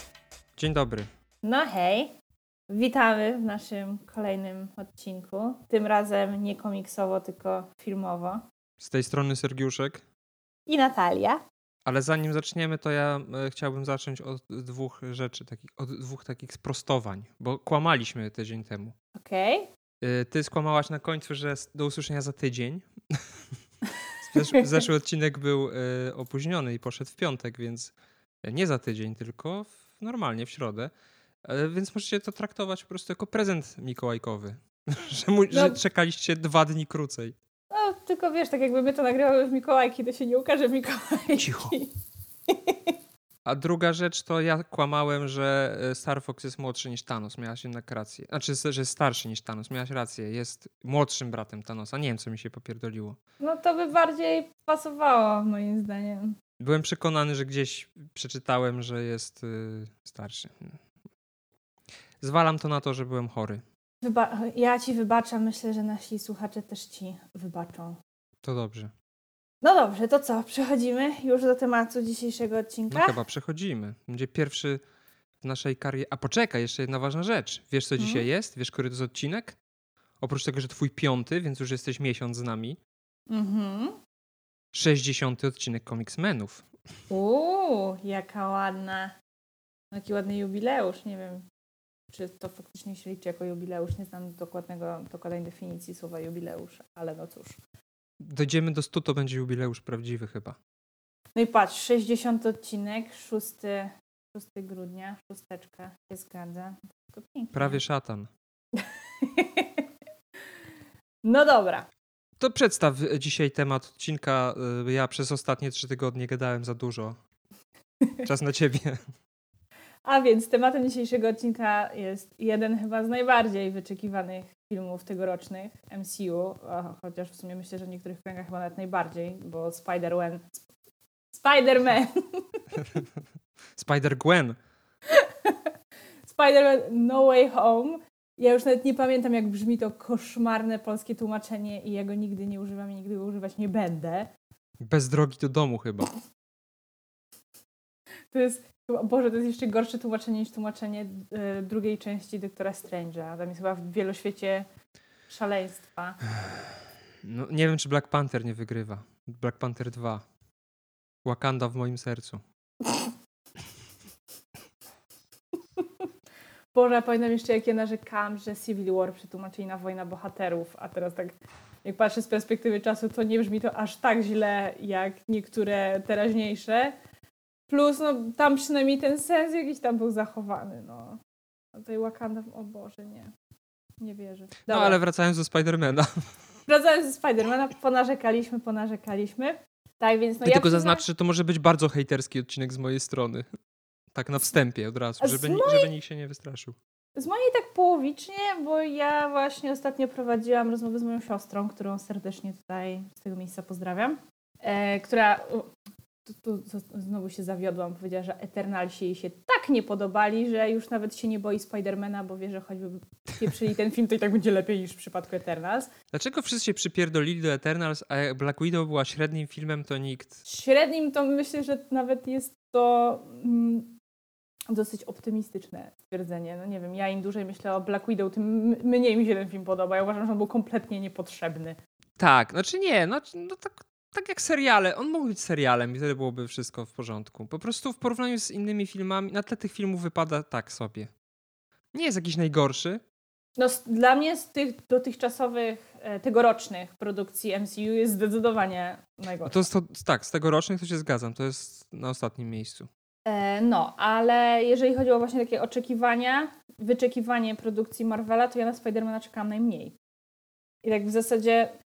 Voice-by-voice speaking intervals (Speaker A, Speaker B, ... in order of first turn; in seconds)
Speaker A: 0.6-1.1, 8.8-10.0, 11.8-18.9, 20.0-23.4, 24.2-30.9, 31.4-37.4, 41.4-41.8, 43.4-53.2, 56.6-60.8, 62.2-63.6, 68.4-68.9, 72.9-74.8, 75.4-79.6, 80.2-82.8, 84.7-86.7, 98.2-100.6, 107.5-108.3, 112.4-117.2, 118.2-119.0, 133.8-134.6, 144.8-146.1, 157.2-160.2, 161.2-162.4, 184.7-186.3, 190.4-193.4, 194.1-196.8, 216.1-220.4, 232.2-241.1, 241.9-243.0, 249.4-252.9
Speaker B: 1.4-2.1, 2.7-8.4, 10.7-11.4, 19.1-19.7, 24.3-24.7, 35.5-35.8, 37.7-41.9, 42.5-42.9, 53.4-56.3, 64.0-68.0, 69.6-73.2, 78.0-78.2, 83.3-84.0, 87.1-89.1, 89.9-91.4, 92.1-97.6, 101.3-107.8, 108.7-109.8, 111.2-111.9, 120.0-130.6, 131.3-132.8, 135.1-135.7, 136.2-144.3, 148.3-154.7, 155.3-156.2, 166.7-176.9, 177.7-181.2, 181.7-183.3, 184.0-185.0, 186.7-191.0, 195.2-195.9, 197.2-205.7, 206.3-215.9, 220.4-223.9, 224.7-231.8, 243.6-249.7, 253.2-259.9, 260.8-261.7